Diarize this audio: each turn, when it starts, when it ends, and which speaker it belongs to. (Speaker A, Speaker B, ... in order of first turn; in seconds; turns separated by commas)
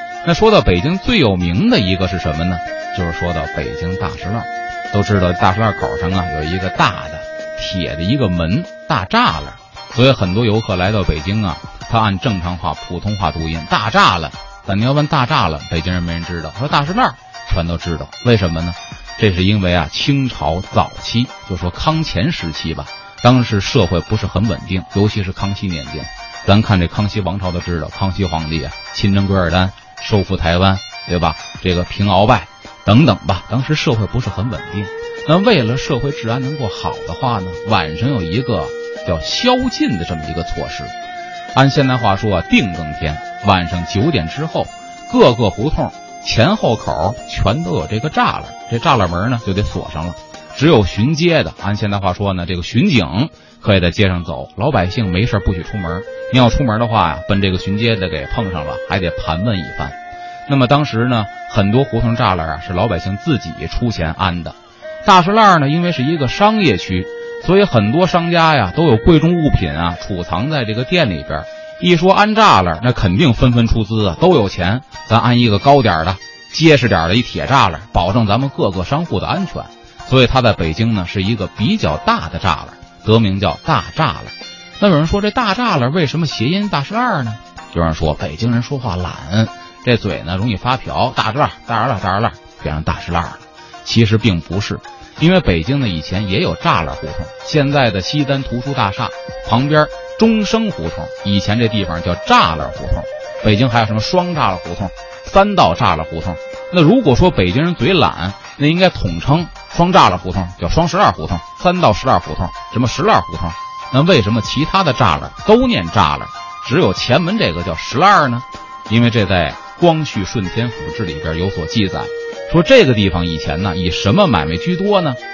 Speaker A: 0.2-40.9, Speaker A: 41.5-60.0, Speaker A: 60.5-125.2